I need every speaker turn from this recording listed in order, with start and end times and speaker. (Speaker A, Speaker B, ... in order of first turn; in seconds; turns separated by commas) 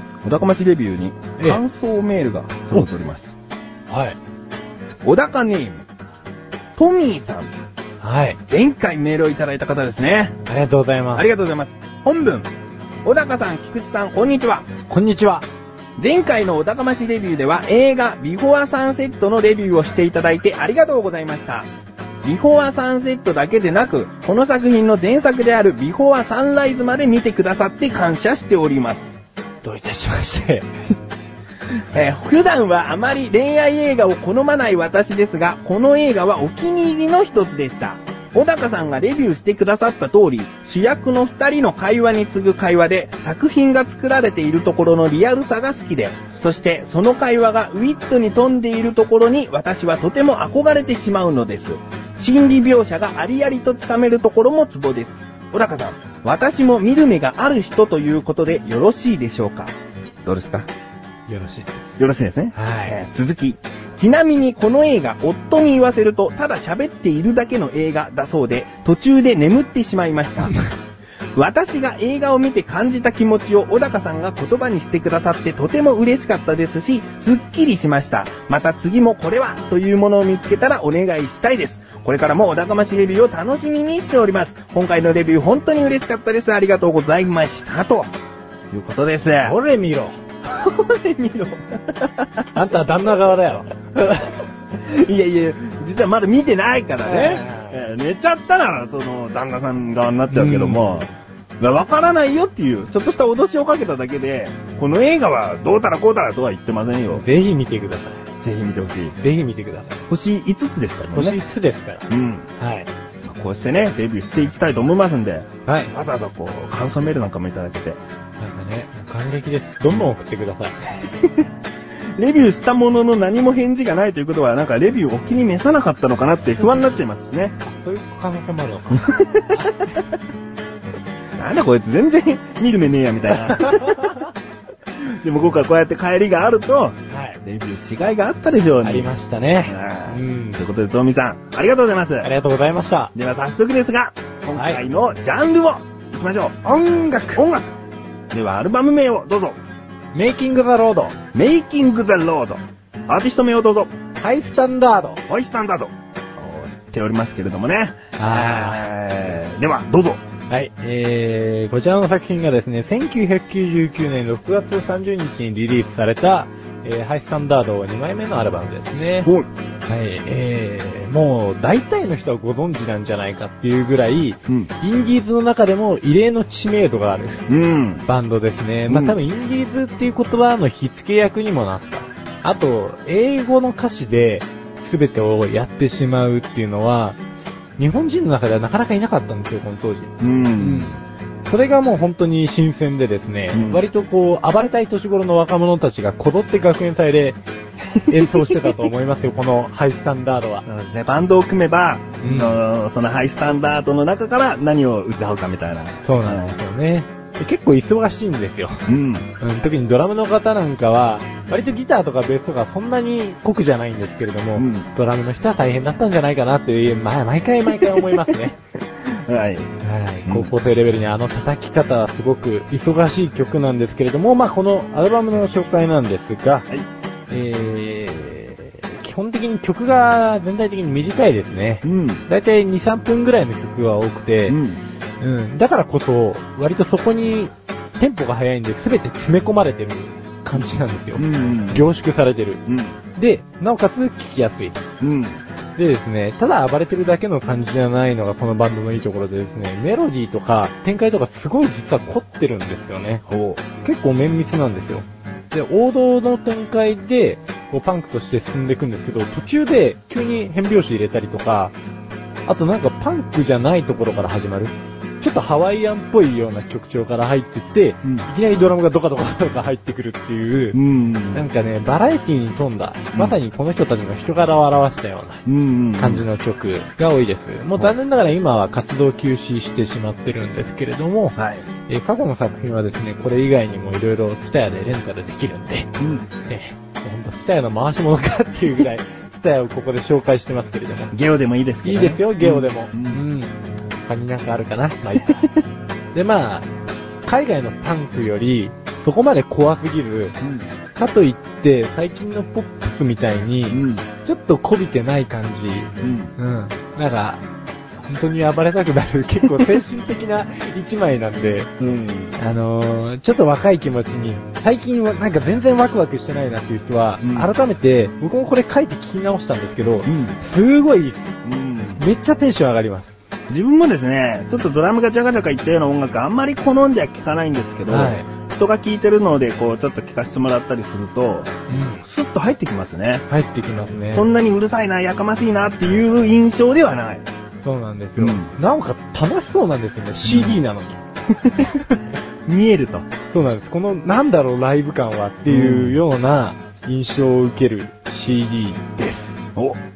Speaker A: 0.2-3.3, Speaker B: 3.9-4.2, Speaker A: 5.0-5.8, Speaker A: 6.8-7.5, Speaker B: 8.0-8.4, Speaker A: 8.5-10.4, Speaker B: 10.5-11.2, Speaker A: 11.1-12.5, Speaker A: 13.0-14.7, Speaker B: 14.9-15.4, Speaker A: 16.0-21.7, Speaker A: 22.2-29.2, Speaker B: 29.6-30.7, Speaker A: 31.9-60.7, Speaker B: 61.3-62.0, Speaker A: 62.0-70.5, Speaker B: 62.5-63.0, Speaker A: 71.3-88.1, Speaker A: 88.7-89.6, Speaker B: 89.4-90.2, Speaker A: 90.4-92.5, Speaker B: 92.5-94.1, Speaker A: 94.0-101.1, Speaker B: 97.0-97.8, Speaker B: 100.3-100.8, Speaker A: 101.6-107.2, Speaker B: 107.1-108.2, Speaker A: 108.4-109.2, Speaker B: 109.2-110.0, Speaker A: 110.1-111.4, Speaker B: 111.1-112.9, Speaker A: 112.1-112.5, Speaker A: 113.2-118.0, Speaker B: 115.7-115.9, Speaker B: 118.4-120.8, Speaker A: 121.0-121.5, Speaker A: 122.2-127.5, Speaker B: 127.6-130.0, Speaker A: 129.1-129.5, Speaker A: 131.4-134.2, Speaker B: 133.4-134.3, Speaker A: 135.0-139.1, Speaker B: 137.1-137.4, Speaker B: 138.8-140.6, Speaker A: 139.6-142.3, Speaker B: 142.2-143.1, Speaker A: 143.1-147.8, Speaker B: 144.5-144.8, Speaker B: 146.7-147.4, Speaker A: 148.3-149.6, Speaker B: 150.1-151.2, Speaker A: 151.3-153.9, Speaker B: 154.2-155.2, Speaker A: 155.3-160.2, Speaker B: 158.2-158.9, Speaker B: 160.5-169.3, Speaker B: 169.9-177.4, Speaker A: 177.5-178.0, Speaker B: 178.1-187.2, Speaker A: 178.9-179.2, Speaker B: 187.8-197.4, Speaker A: 190.2-190.9, Speaker A: 193.5-193.8, Speaker A: 198.0-198.7, Speaker B: 198.0-200.6, Speaker A: 200.7-206.5, Speaker B: 202.2-202.6, Speaker B: 206.0-208.8, Speaker A: 208.8-209.3, Speaker B: 209.4-218.6, Speaker A: 214.6-214.9, Speaker A: 219.1-219.7, Speaker B: 219.8-226.7, Speaker A: 220.2-220.5, Speaker B: 227.3-234.6, Speaker A: 231.8-232.2, Speaker A: 234.5-234.8, Speaker B: 235.2-242.6, Speaker A: 241.2-241.9, Speaker A: 242.7-242.9, Speaker B: 243.2-244.8, Speaker A: 245.0-245.4, Speaker B: 245.8-253.2, Speaker A: 253.3-253.6, Speaker B: 253.8-261.7, Speaker B: 262.5-270.8, Speaker A: 270.7-271.4, Speaker B: 271.3-275.4, Speaker A: 275.4-276.2, Speaker B: 276.0-281.4, Speaker A: 281.4-281.6, Speaker B: 281.9-285.9, Speaker A: 286.0-286.3, Speaker B: 286.4-291.1, Speaker A: 291.1-293.2, Speaker B: 291.8-295.4, Speaker B: 296.1-296.7, Speaker B: 297.2-300.4, Speaker A: 300.4-300.7, Speaker B: 300.9-307.4, Speaker A: 303.7-304.1, Speaker A: 306.0-306.3, Speaker B: 308.0-311.7, Speaker A: 311.8-312.3, Speaker B: 312.4-321.4, Speaker A: 317.2-317.5, Speaker A: 320.1-320.4, Speaker A: 321.4-322.0, Speaker B: 322.0-323.1, Speaker A: 323.5-333.2, Speaker B: 327.9-328.3, Speaker B: 331.7-332.0, Speaker B: 333.3-334.3, Speaker A: 334.1-337.3, Speaker B: 337.6-341.0, Speaker A: 338.2-338.5, Speaker A: 340.2-340.6, Speaker A: 341.4-341.8, Speaker A: 342.4-343.1, Speaker B: 343.3-349.4, Speaker A: 345.5-346.0, Speaker A: 349.5-349.8